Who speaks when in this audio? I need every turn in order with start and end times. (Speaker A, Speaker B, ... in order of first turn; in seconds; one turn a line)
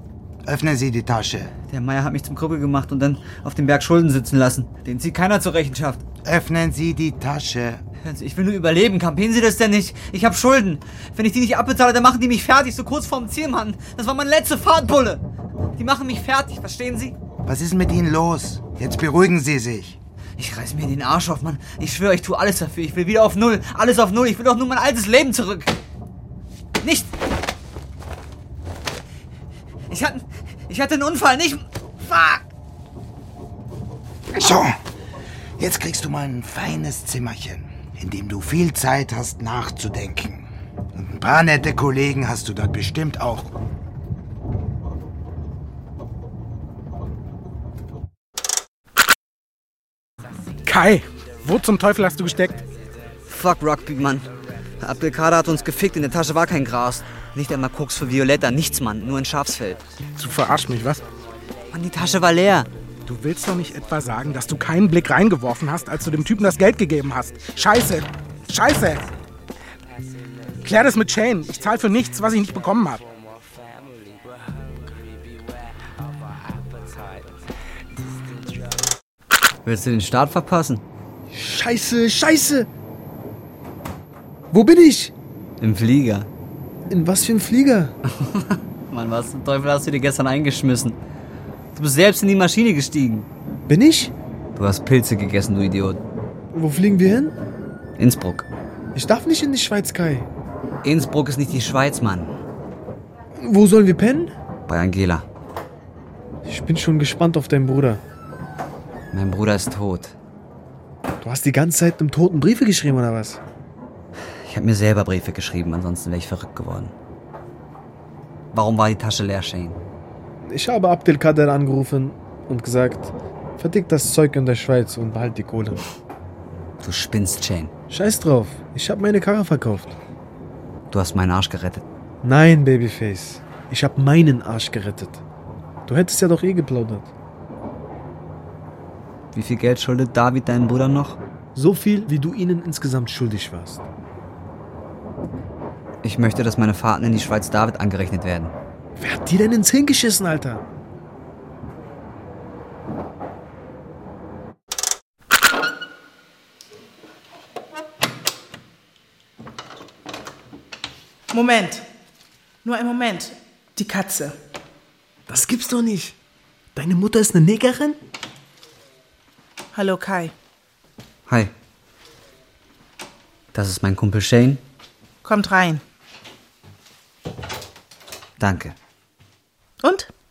Speaker A: 0.5-1.5
Speaker B: 1.7-6.0
Speaker A: 6.2-7.8
Speaker B: 8.0-15.2
Speaker B: 15.8-17.1
Speaker A: 17.4-20.0
Speaker B: 20.4-25.7
Speaker B: 26.8-27.1
Speaker B: 29.9-32.5
Speaker A: 34.3-34.7
Speaker A: 35.6-43.5
Speaker C: 50.6-52.6
Speaker B: 53.3-54.3
Speaker B: 54.8-59.8
Speaker C: 60.2-61.0
Speaker B: 61.7-62.7
Speaker C: 63.0-69.0
Speaker C: 70.6-73.0
Speaker B: 79.6-80.8
Speaker D: 81.3-82.7
Speaker D: 84.5-85.1
Speaker B: 85.6-86.3
Speaker D: 86.9-87.9
Speaker B: 88.0-91.0
Speaker B: 91.7-93.3
Speaker D: 93.7-94.1
Speaker B: 94.5-96.0
Speaker D: 96.5-97.3
Speaker B: 98.0-98.5
Speaker D: 98.9-100.3
Speaker B: 100.8-102.3
Speaker D: 103.4-104.3
Speaker B: 104.7-105.2
Speaker D: 106.5-108.0
Speaker B: 109.1-110.1
Speaker D: 111.2-113.4
Speaker B: 114.5-116.9
Speaker B: 118.5-119.8
Speaker D: 120.4-125.8
Speaker B: 126.8-127.7
Speaker D: 127.9-129.9
Speaker B: 130.9-131.8
Speaker D: 132.2-135.2
Speaker D: 135.9-137.1
Speaker B: 139.3-141.2
Speaker D: 141.5-143.8
Speaker B: 146.0-148.5
Speaker D: 149.0-150.6
Speaker E: 161.3-161.8
Speaker E: 162.6-164.4
Speaker D: 165.3-166.1
Speaker D: 166.7-168.0
Speaker E: 169.7-170.3
Speaker B: 171.3-171.5
Speaker B: 173.5-174.6
Speaker E: 175.2-175.8
Speaker B: 178.4-178.7
Speaker E: 179.8-180.1